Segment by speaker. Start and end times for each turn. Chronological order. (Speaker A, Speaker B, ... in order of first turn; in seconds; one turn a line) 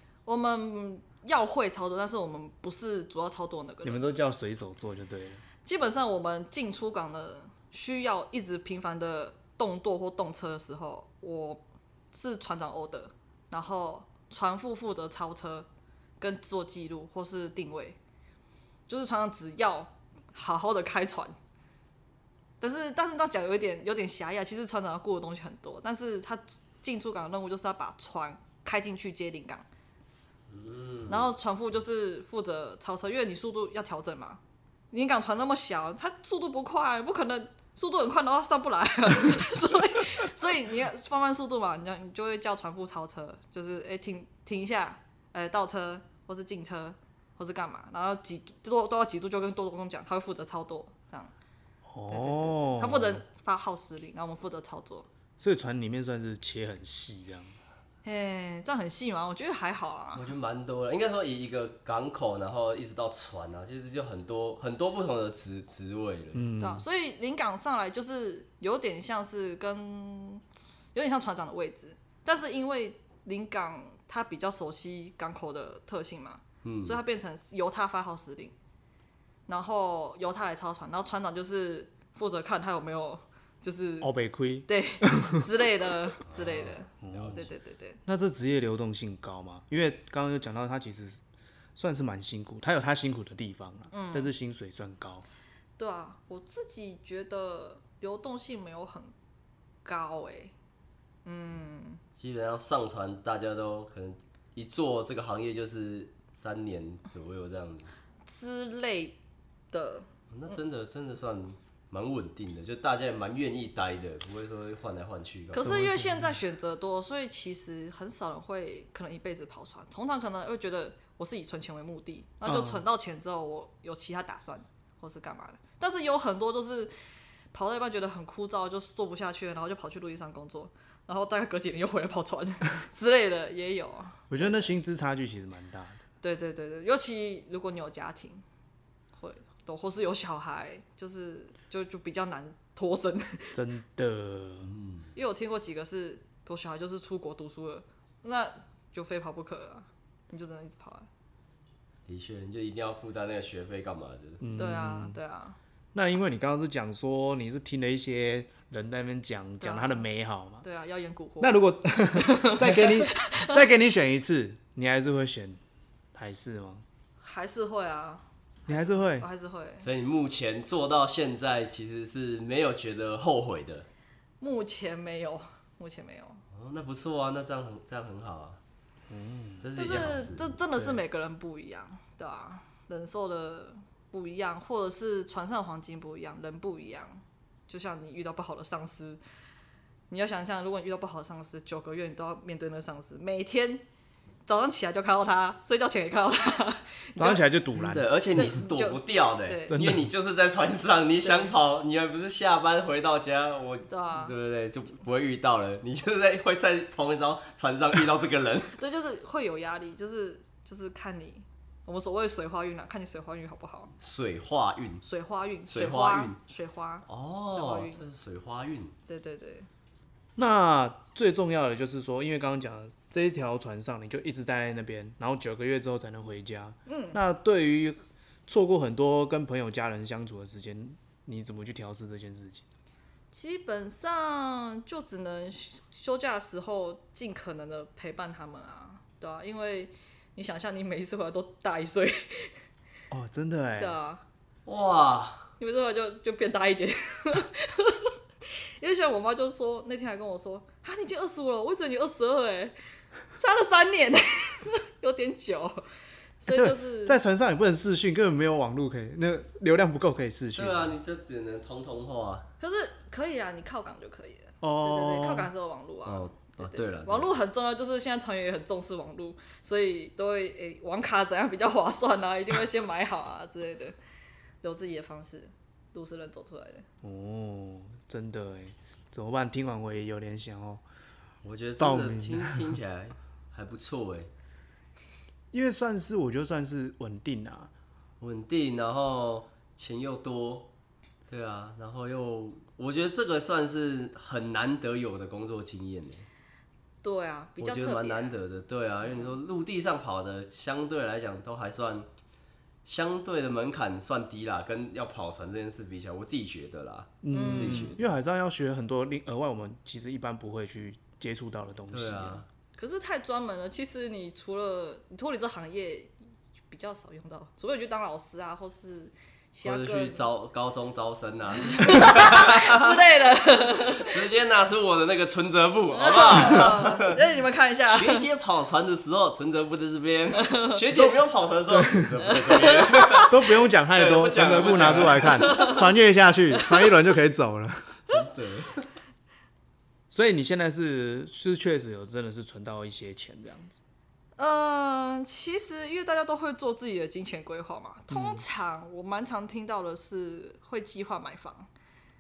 Speaker A: 0.3-4.0
Speaker B: 3.8-5.4
Speaker A: 5.6-15.7
Speaker A: 16.2-18.0
Speaker A: 18.9-21.4
Speaker A: 22.6-29.6
Speaker C: 30.5-31.3
Speaker A: 31.1-34.4
Speaker A: 34.9-51.3
Speaker B: 51.9-53.2
Speaker A: 52.1-55.1
Speaker B: 55.4-57.6
Speaker A: 58.0-60.3
Speaker C: 60.1-66.5
Speaker B: 66.3-66.8
Speaker A: 66.6-70.4
Speaker A: 70.9-78.5
Speaker C: 76.6-77.0
Speaker A: 79.5-84.1
Speaker B: 84.0-85.5
Speaker A: 84.7-88.0
Speaker C: 86.3-87.5
Speaker B: 87.0-87.5
Speaker B: 88.1-91.2
Speaker B: 91.8-95.2
Speaker A: 93.9-94.3
Speaker A: 95.8-99.1
Speaker A: 99.8-100.5
Speaker A: 101.2-102.0
Speaker C: 102.2-107.9
Speaker A: 108.3-109.2
Speaker A: 109.7-110.6
Speaker C: 110.3-115.7
Speaker A: 115.5-126.9
Speaker B: 115.6-116.4
Speaker B: 122.5-122.8
Speaker A: 127.5-134.8
Speaker B: 134.3-136.0
Speaker A: 136.2-138.4
Speaker A: 139.2-143.6
Speaker B: 143.5-144.7
Speaker C: 144.7-145.1
Speaker A: 145.2-151.1
Speaker C: 152.1-154.4
Speaker B: 154.4-155.2
Speaker A: 154.6-155.6
Speaker B: 155.9-160.7
Speaker A: 159.6-160.0
Speaker A: 160.6-161.6
Speaker B: 161.4-165.6
Speaker A: 162.1-163.6
Speaker B: 166.1-166.8
Speaker A: 167.2-169.9
Speaker B: 168.7-169.3
Speaker C: 169.8-173.9
Speaker A: 174.4-176.4
Speaker C: 176.5-178.6
Speaker B: 179.1-179.7
Speaker C: 179.6-181.0
Speaker A: 179.8-189.2
Speaker A: 190.1-193.8
Speaker A: 194.5-197.6
Speaker B: 197.2-198.1
Speaker C: 197.7-208.8
Speaker A: 198.3-199.8
Speaker B: 199.7-200.1
Speaker A: 203.9-204.3
Speaker A: 208.7-213.9
Speaker C: 214.0-215.0
Speaker A: 215.0-218.0
Speaker C: 215.7-216.4
Speaker C: 217.1-218.9
Speaker A: 219.1-219.7
Speaker B: 220.4-232.7
Speaker A: 226.9-227.2
Speaker A: 233.3-242.5
Speaker B: 243.1-244.0
Speaker A: 243.8-244.2
Speaker C: 244.7-245.5
Speaker A: 245.6-248.1
Speaker A: 248.8-252.8
Speaker A: 253.4-255.8
Speaker A: 256.4-257.2
Speaker B: 256.5-261.0
Speaker C: 260.6-262.5
Speaker A: 262.6-274.0
Speaker B: 264.6-265.5
Speaker C: 266.1-267.3
Speaker A: 274.6-276.9
Speaker B: 277.0-280.8
Speaker C: 281.4-284.3
Speaker B: 281.8-282.7
Speaker B: 285.5-287.7
Speaker C: 288.2-290.7
Speaker C: 291.3-296.3
Speaker A: 297.0-298.4
Speaker C: 297.6-302.1
Speaker A: 299.1-299.4
Speaker C: 302.9-308.0
Speaker B: 307.2-312.4
Speaker A: 307.3-308.0
Speaker C: 311.9-312.5
Speaker A: 312.8-316.1
Speaker A: 316.7-320.2
Speaker C: 319.6-323.0
Speaker A: 321.6-324.2
Speaker C: 324.0-327.2
Speaker A: 325.9-328.3
Speaker C: 327.9-333.4
Speaker A: 330.5-330.8
Speaker B: 331.7-332.1
Speaker A: 332.3-333.3
Speaker B: 333.2-337.9
Speaker C: 333.9-335.7
Speaker A: 335.3-335.8
Speaker C: 338.1-338.9
Speaker B: 340.1-343.8
Speaker A: 344.4-351.7
Speaker B: 348.1-348.4